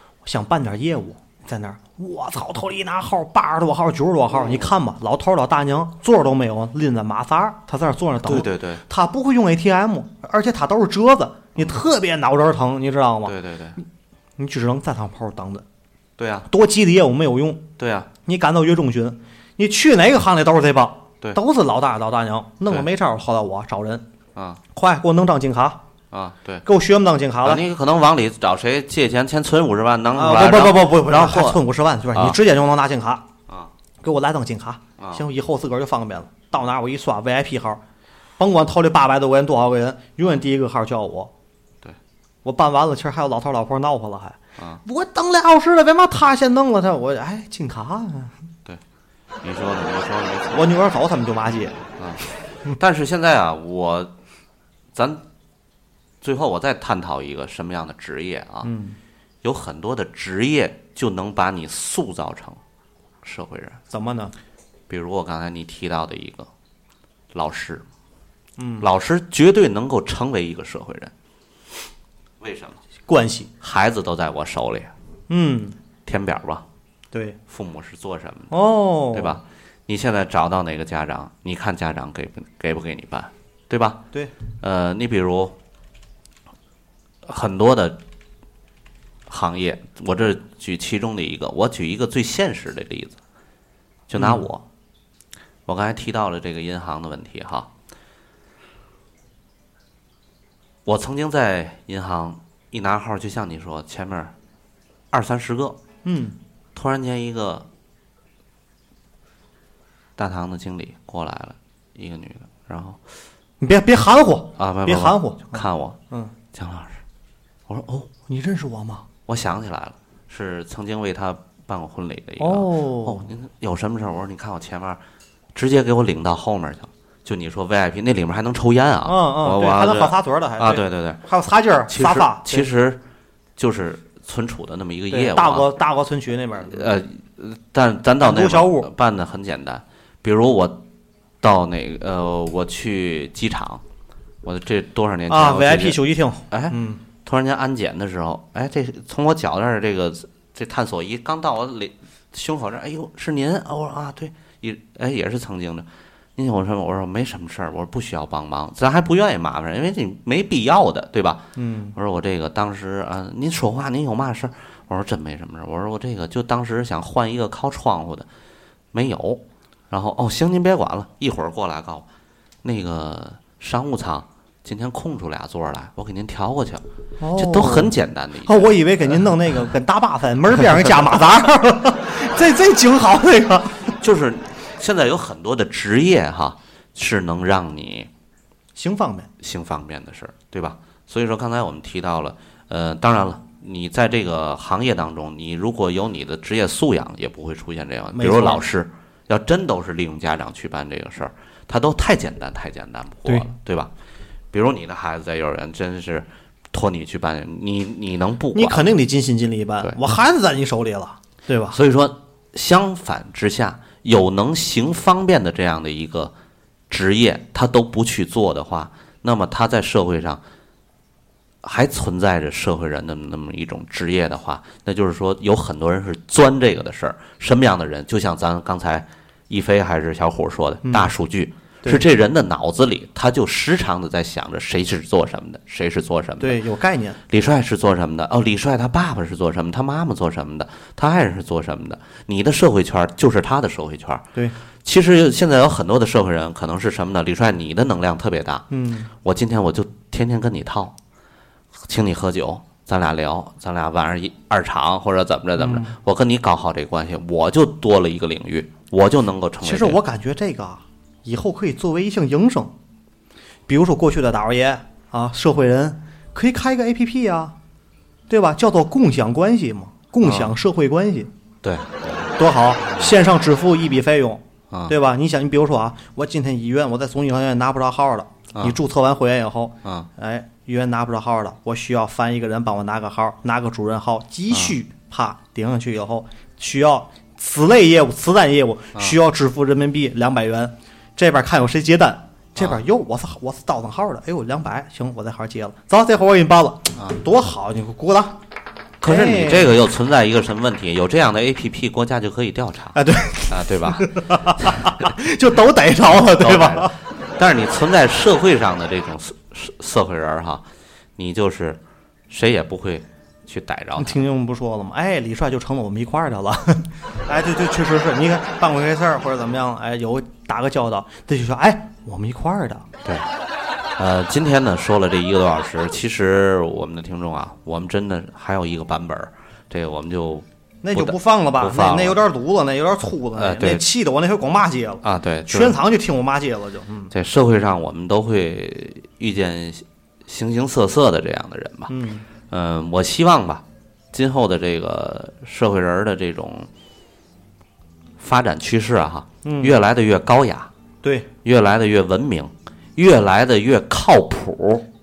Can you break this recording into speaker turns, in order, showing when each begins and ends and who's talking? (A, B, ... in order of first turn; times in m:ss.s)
0:00.2-0:13.8 A
0:08.2-0:08.8 B
0:13.2-0:13.8 B
0:14.4-0:15.6 A
0:16.2-0:16.5 B
0:16.5-0:17.6 A
0:17.8-0:18.1 B
0:18.2-0:24.0 A
0:24.3-0:24.6 B
0:24.7-0:25.8 A
0:26.1-0:26.6 B
0:26.6-0:27.6 A
0:27.4-0:31.6 B
0:30.1-0:33.2 A
0:34.0-0:37.8 A
0:38.4-0:41.3 A
0:42.4-0:48.3 A
0:49.4-0:50.7 B
0:50.5-0:51.8 A
0:52.0-0:54.1 B
0:54.9-0:55.2 B
0:56.2-0:58.7 B
0:58.6-0:59.0 A
0:59.4-1:02.6 B
1:03.2-1:03.8 B
1:03.9-1:04.3 A
1:04.9-1:06.5 B
1:07.3-1:07.8 B
1:08.6-1:08.9 A
1:08.8-1:11.1 B
1:12.4-1:12.8 B
1:13.1-1:13.5 A
1:13.6-1:14.9 B
1:15.3-1:15.8 A
1:16.0-1:16.6 B
1:17.1-1:17.4 A
1:17.5-1:18.5 B
1:18.5-1:19.4 A
1:19.1-1:24.0 B
1:24.6-1:25.6 B
1:27.2-1:28.0 B
1:29.3-1:33.2 B
1:34.1-1:34.6 B
1:34.2-1:34.4 A
1:35.6-1:37.7 B
1:40.8-1:44.3 B
1:45.1-1:45.8 B
1:46.0-1:46.4 A
1:46.7-1:47.7 B
1:50.2-1:53.0 B
1:53.6-1:56.3 A
1:54.6-1:56.0 B
1:56.5-1:57.0 B
1:57.7-1:58.1 B
1:58.3-1:59.1 A
1:59.3-2:05.0 B
2:02.4-2:03.2 A
2:05.5-2:11.2 B
2:09.0-2:12.7 A
2:11.9-2:13.0 B
2:13.6-2:15.7 B
2:15.1-2:16.9 A
2:16.6-2:20.8 B
2:18.2-2:18.9 A
2:21.4-2:23.8 B
2:24.4-2:26.0 B
2:25.3-2:27.0 A
2:26.5-2:48.3 B
2:41.6-2:41.9 A
2:48.9-2:52.0 B
2:52.6-2:56.8 B
2:57.2-3:04.0 A
2:57.4-2:58.7 B
3:04.0-3:08.1 B
3:08.7-3:09.3 A
3:09.4-3:23.9 B
3:18.1-3:18.6 A
3:24.5-3:29.0 B
3:28.5-3:31.8 A
3:31.7-3:36.3 B
3:36.9-3:40.4 B
3:41.6-3:56.6 B
3:50.8-3:51.1 A
3:56.4-3:57.2 A
3:57.3-4:04.2 B
4:04.8-4:10.9 B
4:08.7-4:09.1 A
4:11.8-4:20.0 B
4:15.6-4:15.9 A
4:19.6-4:22.7 A
4:23.7-4:27.5 A
4:28.3-4:31.3 A
4:30.2-4:30.5 B
4:31.6-4:33.1 B
4:32.4-4:58.4 A
4:39.8-4:40.1 B
4:59.0-5:03.0 B
4:59.0-4:59.7 A
5:02.9-5:07.0 A
5:03.5-5:05.1 B
5:06.1-5:10.6 B
5:11.2-5:14.2 B
5:14.0-5:22.9 A
5:24.0-5:32.2 B
5:30.8-5:37.1 A
5:33.3-5:33.8 B
5:35.0-5:35.8 B
5:37.1-5:41.9 B
5:41.9-5:42.2 A
5:42.5-5:46.7 B
5:48.2-5:50.7 B
5:49.4-5:49.8 A
5:51.0-5:51.3 A
5:51.4-5:54.8 B